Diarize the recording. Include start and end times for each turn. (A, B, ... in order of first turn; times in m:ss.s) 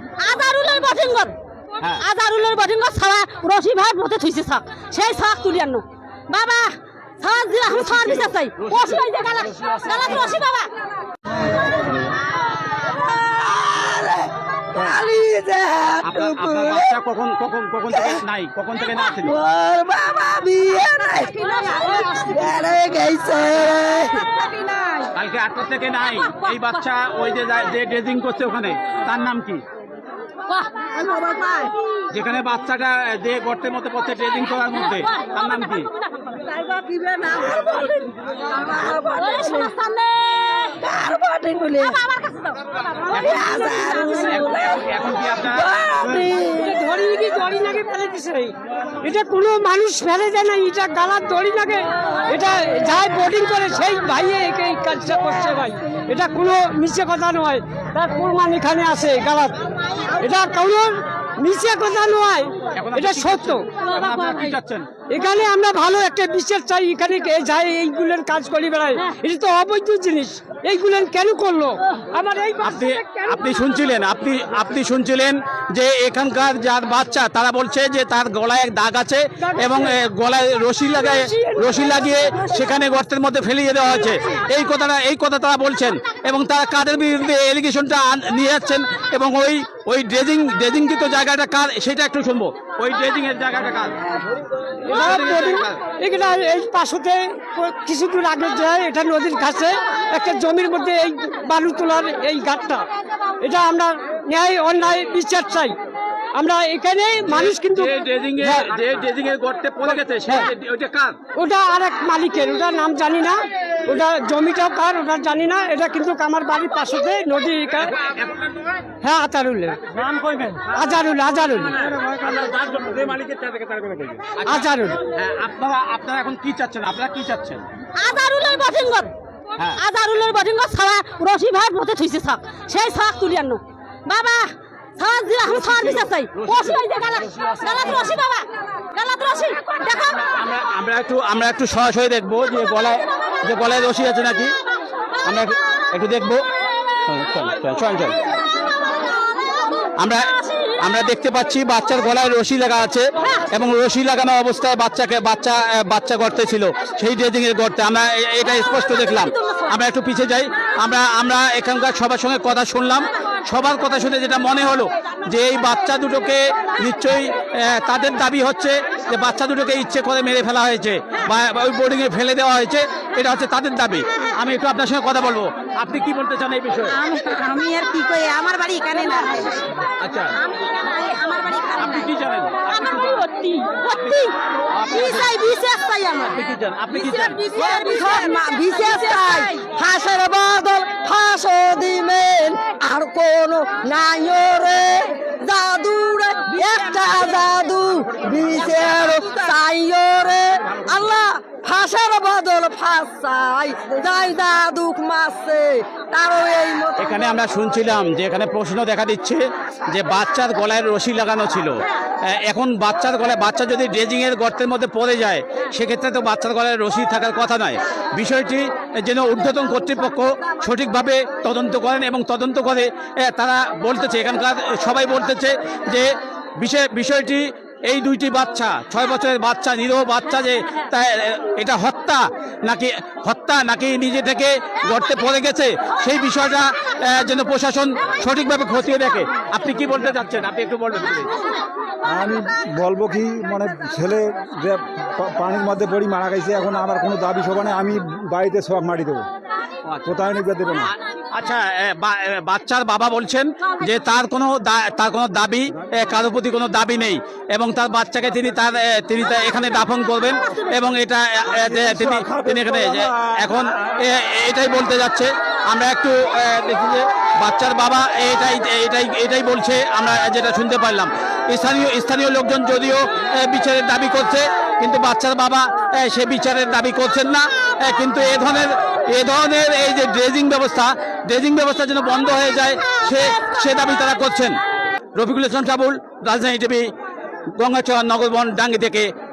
0:00.2-0:01.3 A
0:02.0-0:10.7 A
0:07.7-0:09.0 B
0:12.8-0:16.9 C
0:16.0-0:19.4 B
0:19.2-0:24.5 C
0:25.1-0:29.6 B
0:31.0-0:31.7 C
0:32.1-0:35.9 B
0:35.0-0:36.4 A
0:36.4-0:39.7 C
0:38.9-0:40.8 A
0:40.8-0:42.0 C
0:41.8-0:44.1 A
0:43.1-0:43.5 B
0:43.1-0:46.8 C
0:44.0-0:46.3 B
0:46.6-1:03.6 D
1:02.7-1:04.9 B
1:05.1-1:13.4 D
1:12.6-1:34.0 B
1:19.4-1:20.0 D
1:20.9-1:22.7 D
1:34.8-1:35.8 B
1:34.9-1:42.9 D
1:43.4-1:45.8 D
1:46.3-1:48.8 D
1:47.2-1:51.2 B
1:51.3-1:57.9 D
1:57.8-1:58.4 B
1:59.0-1:59.8 D
1:59.9-2:00.8 B
2:00.7-2:01.8 D
2:01.8-2:07.6 B
2:04.4-2:05.0 D
2:08.0-2:09.1 A
2:09.8-2:14.5 A
2:15.0-2:20.2 A
2:15.4-2:16.8 B
2:20.3-2:24.5 B
2:25.2-2:26.4 B
2:27.1-2:28.2 B
2:30.0-2:57.0 B
2:38.8-2:39.7 A
2:57.0-2:59.6 C
3:00.0-3:00.3 B
3:00.7-3:02.0 C
3:01.8-3:03.2 B
3:02.9-3:04.3 A
3:04.7-3:05.4 B
3:04.9-3:06.4 C
3:06.3-3:07.4 B
3:07.4-3:27.2 C
3:07.5-3:07.7 A
3:27.0-4:01.3 B
4:02.0-4:09.2 E
4:09.8-4:10.1 B
4:10.0-4:10.9 E
4:11.3-4:44.6 B
4:21.5-4:23.6 E
4:45.2-4:46.9 B
4:47.5-4:49.1 B